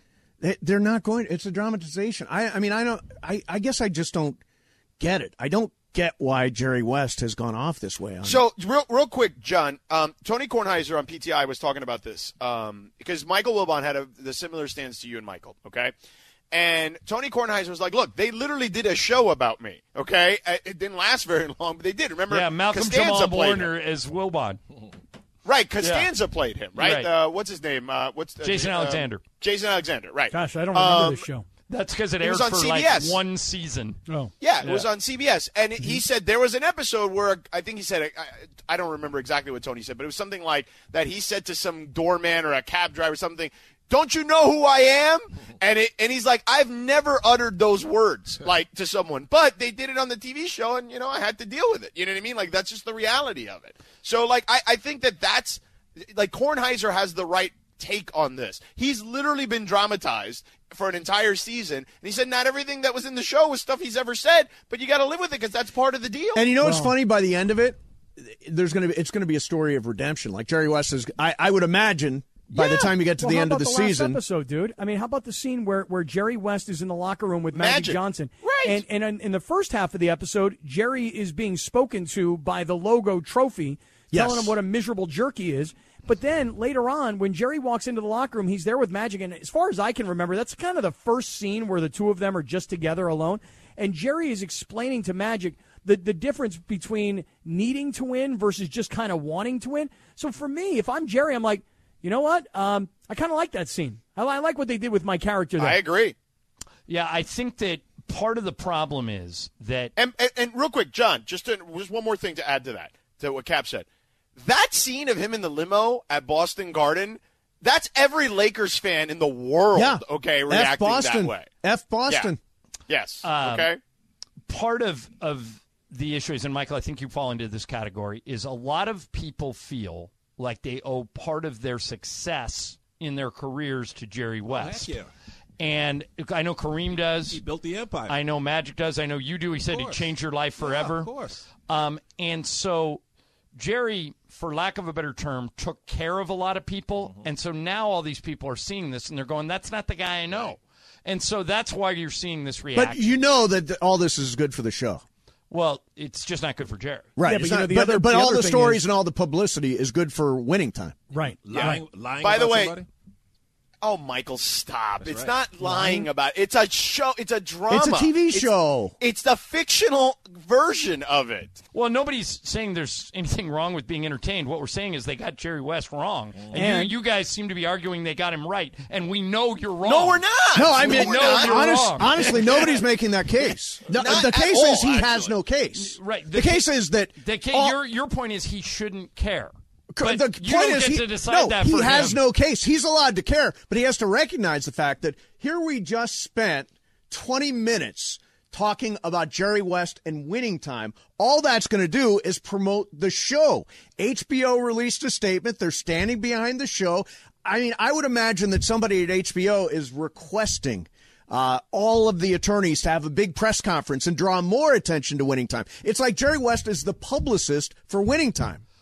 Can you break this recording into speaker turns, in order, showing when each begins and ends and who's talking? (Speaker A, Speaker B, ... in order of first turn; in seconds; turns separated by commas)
Speaker A: 0.4-4.4, Speaker A: 5.0-8.4, Speaker B: 8.2-15.9, Speaker B: 16.5-23.7, Speaker C: 22.3-24.6, Speaker B: 25.4-31.3, Speaker C: 25.8-26.1, Speaker C: 26.8-27.1, Speaker C: 28.4-29.2, Speaker D: 30.3-31.4, Speaker C: 31.7-34.0, Speaker B: 32.2-33.2, Speaker B: 34.4-66.5, Speaker C: 34.6-34.9, Speaker A: 66.3-74.2, Speaker D: 66.6-66.9, Speaker B: 72.5-72.9, Speaker D: 73.1-105.8, Speaker B: 77.5-78.8, Speaker A: 84.1-84.5, Speaker B: 105.6-106.2, Speaker C: 106.9-109.9, Speaker B: 110.0-121.5, Speaker A: 119.7-122.4, Speaker B: 122.9-123.8, Speaker C: 123.2-123.7, Speaker C: 124.5-134.9, Speaker E: 134.5-135.1, Speaker C: 135.6-137.4, Speaker E: 137.3-138.2, Speaker C: 138.1-141.1, Speaker E: 139.7-140.1, Speaker E: 140.6-141.5, Speaker C: 141.7-143.0, Speaker C: 143.6-153.1, Speaker A: 152.8-155.0, Speaker C: 155.5-157.1, Speaker A: 157.2-161.0, Speaker D: 157.2-158.8, Speaker D: 161.1-161.8, Speaker E: 161.4-162.9, Speaker B: 161.6-162.7, Speaker B: 163.8-171.6, Speaker E: 165.0-165.4, Speaker D: 165.6-166.1, Speaker A: 167.7-168.9, Speaker C: 171.7-182.4, Speaker E: 176.4-176.6, Speaker D: 176.5-176.9, Speaker B: 179.8-182.7, Speaker A: 180.5-187.8, Speaker B: 183.9-185.3, Speaker C: 185.8-186.7, Speaker C: 187.2-192.2, Speaker A: 189.9-218.6